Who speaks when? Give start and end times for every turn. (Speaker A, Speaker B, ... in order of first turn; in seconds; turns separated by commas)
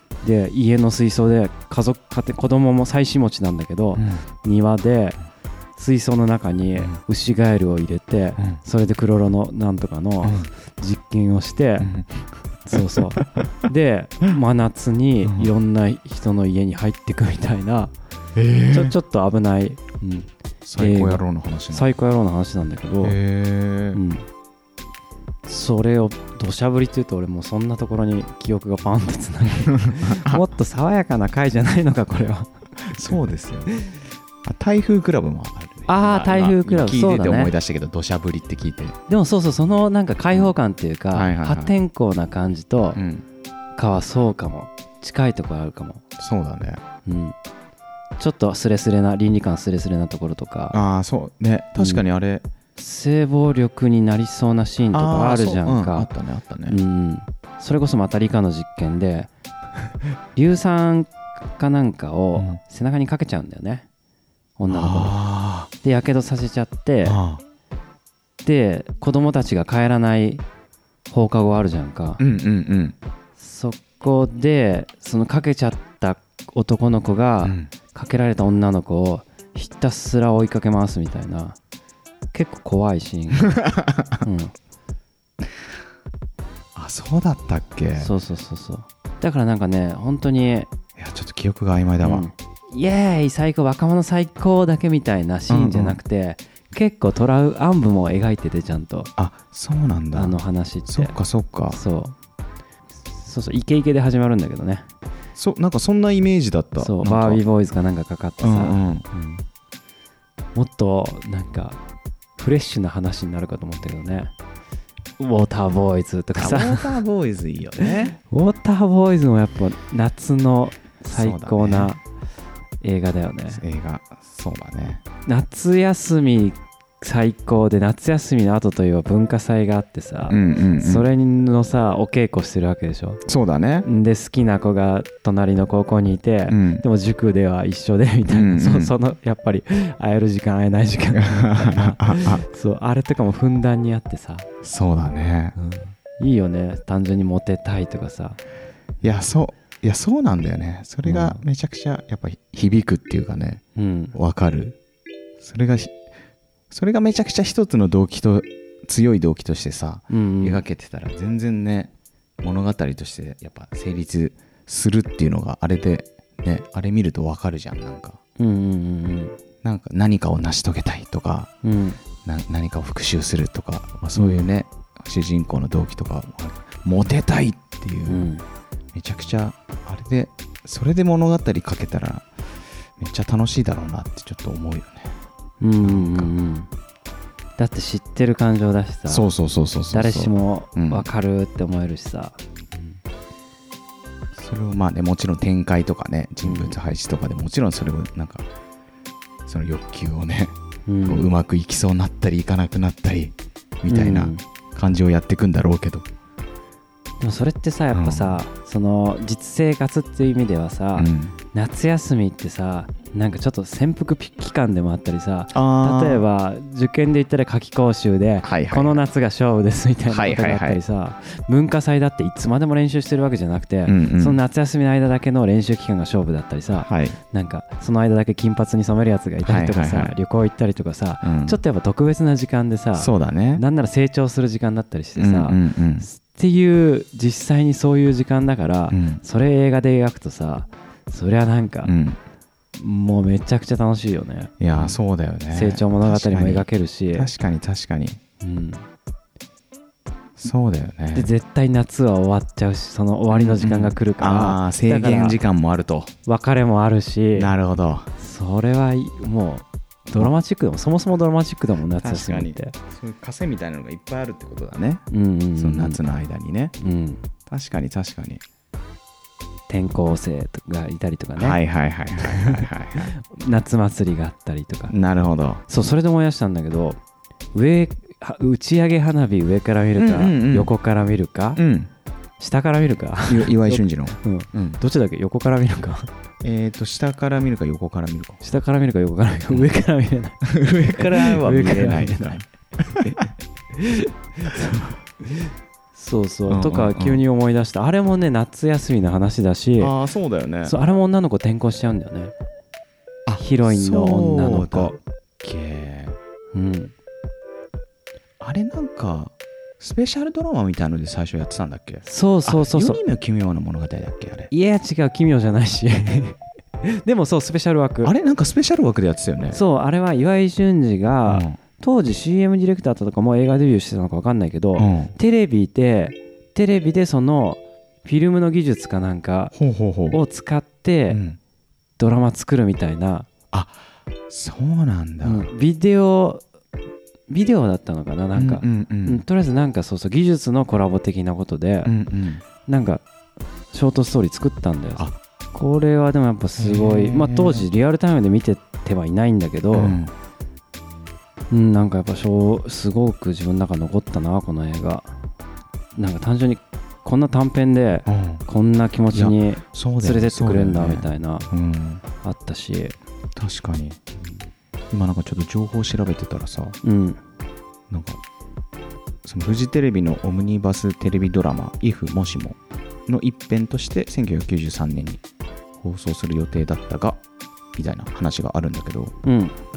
Speaker A: 0.2-5.2, Speaker B: 4.0-4.2, Speaker A: 5.8-11.9, Speaker B: 10.2-10.5, Speaker B: 11.8-13.4, Speaker A: 12.7-17.9, Speaker B: 15.2-15.5, Speaker B: 18.4-18.9, Speaker A: 18.7-23.2, Speaker B: 20.6-21.9, Speaker B: 23.0-24.0, Speaker A: 23.9-24.2, Speaker A: 25.5-32.5, Speaker B: 29.7-30.4, Speaker B: 32.8-33.7, Speaker B: 34.5-39.0, Speaker A: 35.9-37.5, Speaker A: 39.1-43.0, Speaker B: 41.1-41.7, Speaker B: 43.0-43.2, Speaker A: 43.8-46.0, Speaker B: 46.2-46.8, Speaker A: 47.1-47.4, Speaker A: 48.2-50.8, Speaker B: 50.7-52.5, Speaker A: 51.8-52.0, Speaker A: 52.8-56.1, Speaker B: 54.9-56.8, Speaker A: 56.7-59.3, Speaker A: 60.4-63.9, Speaker A: 64.6-65.2, Speaker B: 64.7-65.7, Speaker A: 65.8-67.2, Speaker B: 67.0-67.4, Speaker A: 68.4-70.4, Speaker A: 71.1-72.2, Speaker B: 72.2-73.0, Speaker A: 73.4-81.6, Speaker B: 77.4-77.7, Speaker A: 82.3-83.6, Speaker B: 83.5-84.2, Speaker A: 84.2-84.5, Speaker B: 86.8-88.1, Speaker A: 88.0-90.7, Speaker B: 91.0-92.3, Speaker A: 92.0-99.1, Speaker B: 95.5-96.0, Speaker B: 99.2-101.8, Speaker A: 100.1-101.2, Speaker A: 101.7-102.2, Speaker A: 103.1-104.9, Speaker B: 105.4-107.4, Speaker A: 106.8-109.4, Speaker B: 108.4-109.1, Speaker A: 110.5-111.8, Speaker A: 112.4-114.3, Speaker A: 115.2-117.0, Speaker B: 116.4-118.2, Speaker A: 117.8-122.0, Speaker B: 121.1-121.9, Speaker A: 122.8-123.6, Speaker B: 123.5-125.0, Speaker A: 125.3-133.2, Speaker B: 130.3-131.1, Speaker B: 133.3-133.9, Speaker A: 133.8-144.5, Speaker B: 136.5-136.8, Speaker B: 138.3-138.9, Speaker B: 141.1-142.4, Speaker B: 144.6-145.6, Speaker A: 145.6-148.4, Speaker B: 149.0-153.6, Speaker A: 151.0-151.4, Speaker A: 153.8-154.2, Speaker B: 154.1-154.8, Speaker B: 155.4-155.9, Speaker B: 156.7-168.2, Speaker A: 160.1-160.6, Speaker A: 168.4-169.4, Speaker B: 169.6-171.5, Speaker A: 171.6-172.0, Speaker B: 172.2-178.3, Speaker A: 174.2-174.5, Speaker A: 178.1-178.4, Speaker B: 178.9-182.3, Speaker B: 183.0-185.2, Speaker A: 185.6-186.7, Speaker B: 185.8-186.3, Speaker A: 187.6-189.3, Speaker B: 189.1-191.1, Speaker A: 189.9-193.0, Speaker B: 194.3-198.5, Speaker A: 196.4-196.8, Speaker B: 199.5-200.6, Speaker A: 200.9-201.3, Speaker B: 201.1-206.1, Speaker A: 203.9-204.4, Speaker A: 207.2-241.9, Speaker B: 207.9-208.4, Speaker B: 211.0-211.3, Speaker B: 215.5-216.2, Speaker B: 218.4-219.0, Speaker B: 220.1-220.8, Speaker B: 223.9-224.4, Speaker B: 226.8-227.2, Speaker B: 229.4-230.2, Speaker B: 231.2-231.6, Speaker B: 233.0-233.6, Speaker B: 235.2-236.1, Speaker B: 238.9-239.2, Speaker B: 241.8-242.2, Speaker A: 242.8-245.0, Speaker B: 244.6-248.2, Speaker A: 245.5-247.3, Speaker A: 248.4-248.8, Speaker B: 250.4-251.3, Speaker A: 251.1-255.4, Speaker B: 253.3-256.1, Speaker A: 256.3-257.5, Speaker B: 257.4-258.1, Speaker A: 258.2-262.8, Speaker B: 262.0-265.1, Speaker A: 265.1-266.0, Speaker B: 265.6-266.8, Speaker A: 266.8-267.2, Speaker B: 267.5-268.4, Speaker A: 269.7-271.6, Speaker B: 271.4-273.1, Speaker A: 272.2-274.9, Speaker B: 274.9-275.6, Speaker A: 275.7-277.0, Speaker A: 277.5-281.6, Speaker B: 280.0-280.7, Speaker B: 281.6-281.9, Speaker A: 282.4-286.1, Speaker B: 283.3-284.8, Speaker B: 286.4-288.4, Speaker A: 288.4-292.4, Speaker B: 290.4-293.3, Speaker A: 293.7-299.9, Speaker B: 296.5-297.2, Speaker B: 299.8-300.8, Speaker A: 300.6-302.3, Speaker B: 303.3-306.2, Speaker A: 303.4-305.0, Speaker A: 306.5-306.9, Speaker B: 308.4-314.5, Speaker A: 312.1-313.0, Speaker A: 314.5-318.1, Speaker B: 318.0-319.6, Speaker A: 319.5-329.6, Speaker B: 321.3-321.6, Speaker B: 324.8-325.1, Speaker B: 329.6-330.2, Speaker A: 330.1-331.2, Speaker B: 331.1-331.4, Speaker A: 332.0-333.3, Speaker B: 333.5-333.8, Speaker B: 334.3-335.5, Speaker A: 335.2-336.4, Speaker A: 337.3-341.9, Speaker B: 338.4-339.2, Speaker B: 341.9-342.4, Speaker A: 342.7-343.0, Speaker A: 343.7-350.0, Speaker B: 346.6-347.7, Speaker B: 349.7-350.1, Speaker A: 351.5-355.1, Speaker A: 356.0-361.5, Speaker B: 358.1-358.4, Speaker B: 359.1-362.0, Speaker A: 362.2-363.0, Speaker B: 363.4-364.0, Speaker B: 364.9-366.8, Speaker A: 366.8-367.2, Speaker B: 367.9-368.2, Speaker B: 369.2-375.2, Speaker B: 375.8-377.2, Speaker B: 377.8-379.1, Speaker A: 379.2-379.6